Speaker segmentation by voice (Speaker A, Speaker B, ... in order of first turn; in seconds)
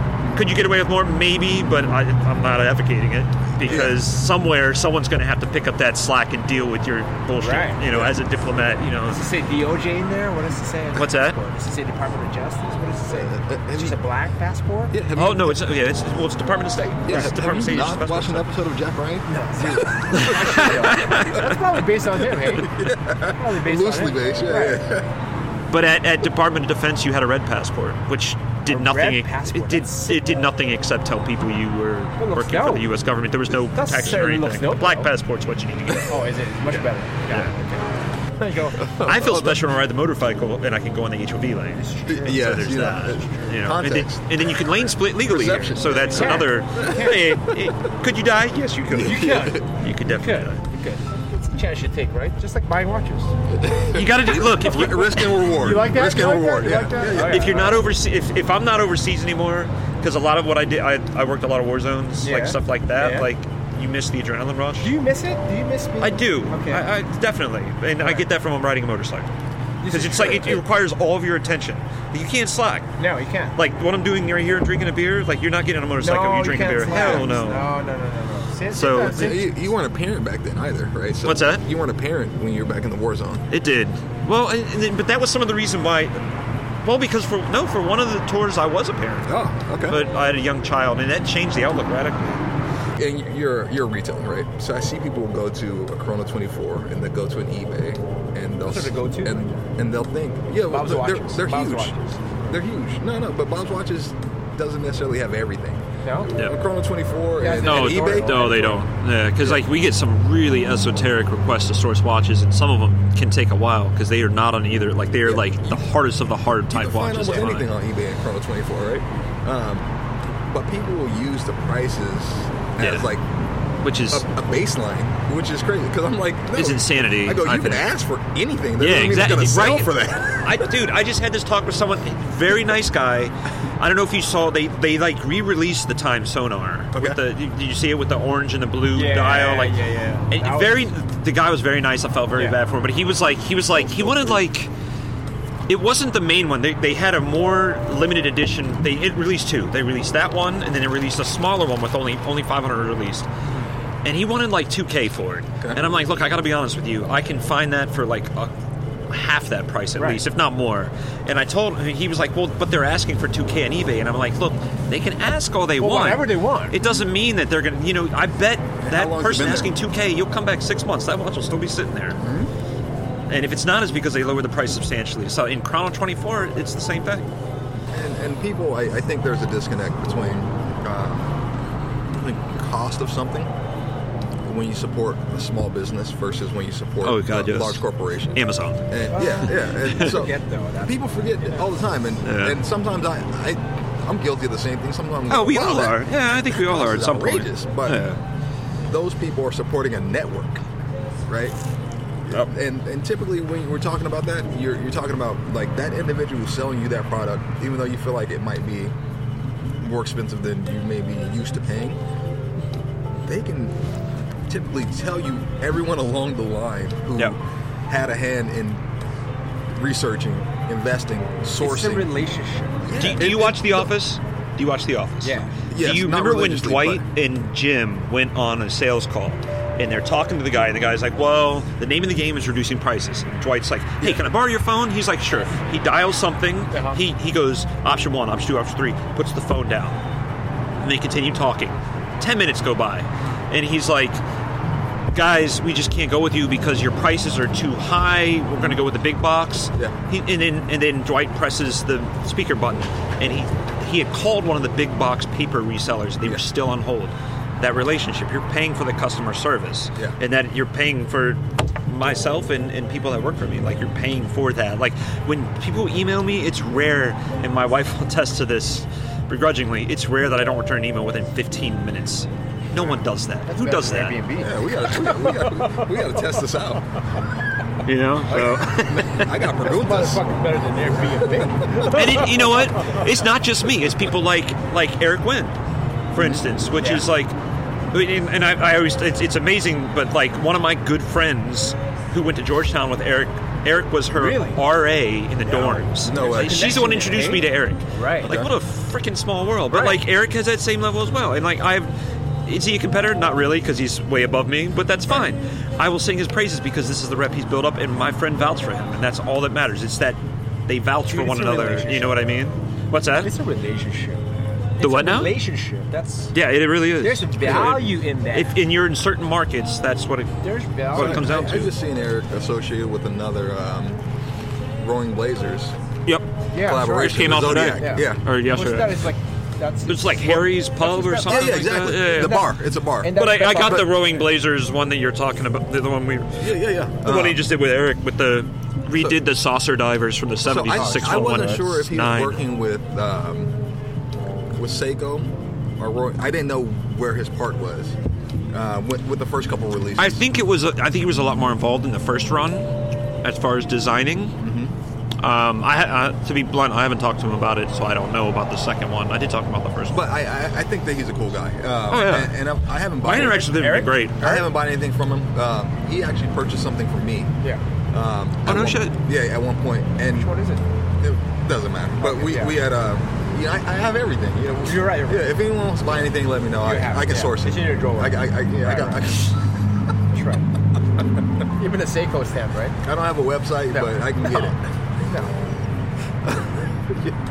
Speaker A: 0.3-9.2, 11.0-11.4, 15.1-18.5, 20.1-21.6, 25.7-36.2, 39.0-50.6, 53.9-55.3, 57.2-65.0, 66.0-69.3, 69.9-72.9, 73.6-77.7, 78.7-79.3, 81.2-81.6, 83.5-86.2, 86.8-92.4, 107.6-117.7, 122.8-123.1, 123.8-124.2, 126.5-127.8, 128.8-129.9, 130.4-144.7, 145.7-153.3, 154.0-158.5, 159.1-172.2, 173.3-177.2, 187.0-190.2, 192.2-192.6, 195.3-198.2, 222.9-240.0, 240.8-244.2, 245.1-274.2, 277.8-279.3, 281.8-285.6, 286.1-287.4, 287.9-301.9, 302.4-313.3, 314.8-315.4, 316.3-321.8, 327.0-329.0, 329.9-332.4, 333.1-336.5, 337.0-342.4, 350.0-354.4, 355.2-360.0, 361.9-362.4, 363.0-364.2, 368.5-369.0
Speaker B: 3.6-3.9, 7.9-8.1, 13.2-14.0, 14.9-15.6, 17.1-20.9, 22.4-25.1, 38.8-39.7, 42.1-47.6, 48.9-49.6, 53.5-57.8, 76.9-77.3, 79.0-83.5, 89.3-90.0, 93.0-102.0, 102.5-108.8, 115.2-115.8, 116.7-119.9, 120.5-123.2, 124.1-130.7, 168.8-169.7, 172.2-172.5, 177.9-181.3, 182.1-183.5, 184.4-198.0, 198.9-200.6, 201.3-201.6, 202.3-208.9, 209.8-212.0, 213.2-213.8, 214.5-218.8, 219.8-222.2, 222.8-223.9, 225.7-227.1, 274.4-276.9, 278.3-280.3, 281.2-282.0, 286.2-286.4, 296.0-296.7, 298.2-298.5, 320.9-324.0, 324.8-325.8, 326.6-328.3, 331.3-333.9, 336.4-337.4, 340.4-343.5, 344.6-348.0, 348.5-350.2, 354.4-354.7, 359.9-363.5, 364.2-367.3, 367.9-370.3, 371.0-379.4, 382.8-384.7, 386.2-387.2
Speaker C: 7.4-7.8, 9.1-14.9, 19.3-24.8, 28.7-30.5, 32.2-32.9, 33.7-35.1, 36.0-38.8, 41.8-43.6, 46.1-47.3, 49.0-53.3, 55.2-57.9, 62.2-63.3, 64.8-66.9, 68.0-68.3, 69.8-70.6, 73.0-73.6, 76.0-79.5, 98.6-99.7, 100.7-102.5, 106.0-106.3, 107.4-108.8, 138.9-140.9, 165.8-166.8, 189.1-191.7, 221.6-223.0, 225.2-225.6, 236.7-237.0, 272.8-276.3, 278.3-278.7, 279.5-283.0, 286.8-287.1, 294.1-294.6, 295.5-298.4, 299.7-300.0, 311.1-312.2, 313.2-316.3, 317.0-318.6, 320.4-321.3, 326.5-334.1, 340.8-341.6, 363.4-364.5, 370.1-370.6, 372.0-372.6, 374.6-375.4, 376.6-379.2, 380.1-380.5, 381.4-382.8, 383.7-385.3